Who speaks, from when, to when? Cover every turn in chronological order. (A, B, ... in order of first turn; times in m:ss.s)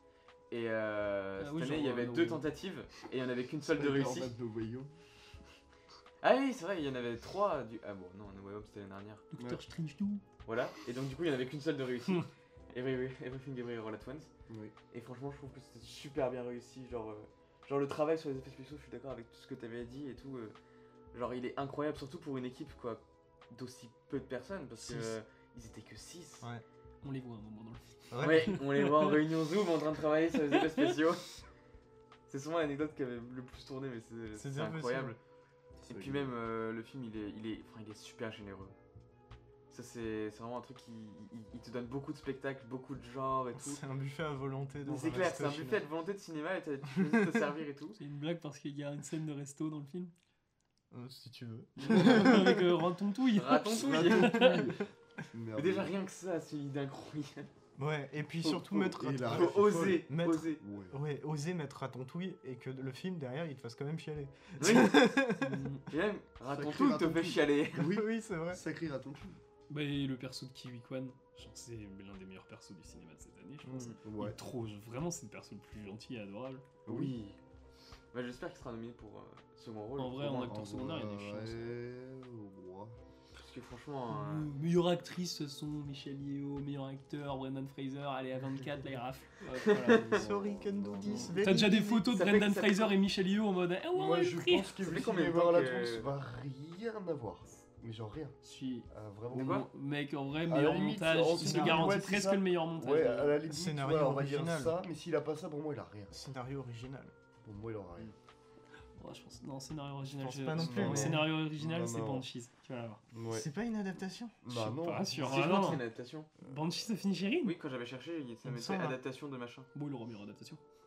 0:00.5-0:04.3 A
0:01.4-0:02.4 B
0:03.7-0:04.9 C
0:06.2-0:09.2 A
0:09.3-0:10.2 B
0:10.4-0:14.3 A
0:14.5-0:14.7 C
0:14.9-0:20.6 A
0:21.1-0:26.5 A
0:24.8-0:25.1 D
0:27.0-0:29.2 B
0:28.1-0:28.6 D
0:28.2-0:31.4 A
0:32.3-0:35.2 A
0:34.3-0:35.2 D
0:35.8-0:38.7 A
0:35.9-0:36.3 C
0:39.7-0:43.8 A
0:43.6-0:45.8 D
0:44.8-0:48.0 A
0:47.0-0:47.4 D
0:48.0-0:50.1 B
0:50.9-0:52.7 D
0:51.8-0:54.8 B
0:53.3-0:54.6 A
0:53.7-0:55.9 C
0:55.5-0:57.5 A
0:57.8-1:05.7 D
0:58.5-1:01.0 C
0:59.2-1:00.6 A
1:04.6-1:05.1 A
1:05.4-1:05.8 B
1:05.9-1:07.9 A
1:06.5-1:09.4 C
1:07.8-1:08.6 D
1:09.7-1:16.6 B
1:13.6-1:13.9 D
1:14.0-1:14.4 C
1:16.8-1:17.1 C
1:16.8-1:17.4 A
1:18.1-1:20.6 A
1:20.0-1:21.8 B
1:20.3-1:23.0 C
1:23.3-1:24.5 A
1:24.1-1:30.1 B
1:29.6-1:30.2 A
1:29.9-1:31.4 C
1:30.1-1:32.1 D
1:31.3-1:34.8 B
1:32.1-1:32.9 A
1:33.9-1:38.4 C
1:34.8-1:36.1 A
1:38.4-1:43.4 B
1:38.9-1:39.7 C
1:39.3-1:39.7 A
1:40.4-1:46.2 C
1:41.4-1:42.0 D
1:43.5-1:44.8 D
1:46.1-1:47.1 D
1:47.4-1:48.1 C
1:49.0-1:53.0 B
1:50.2-1:51.2 D
1:50.6-1:52.2 C
1:53.1-1:53.5 C
1:53.3-1:54.4 D
1:54.4-1:55.7 C
1:54.5-1:55.8 B
1:55.2-1:56.3 A
1:56.4-1:57.6 B
1:57.4-1:59.7 A
1:58.4-1:59.0 D
1:59.7-2:00.6 B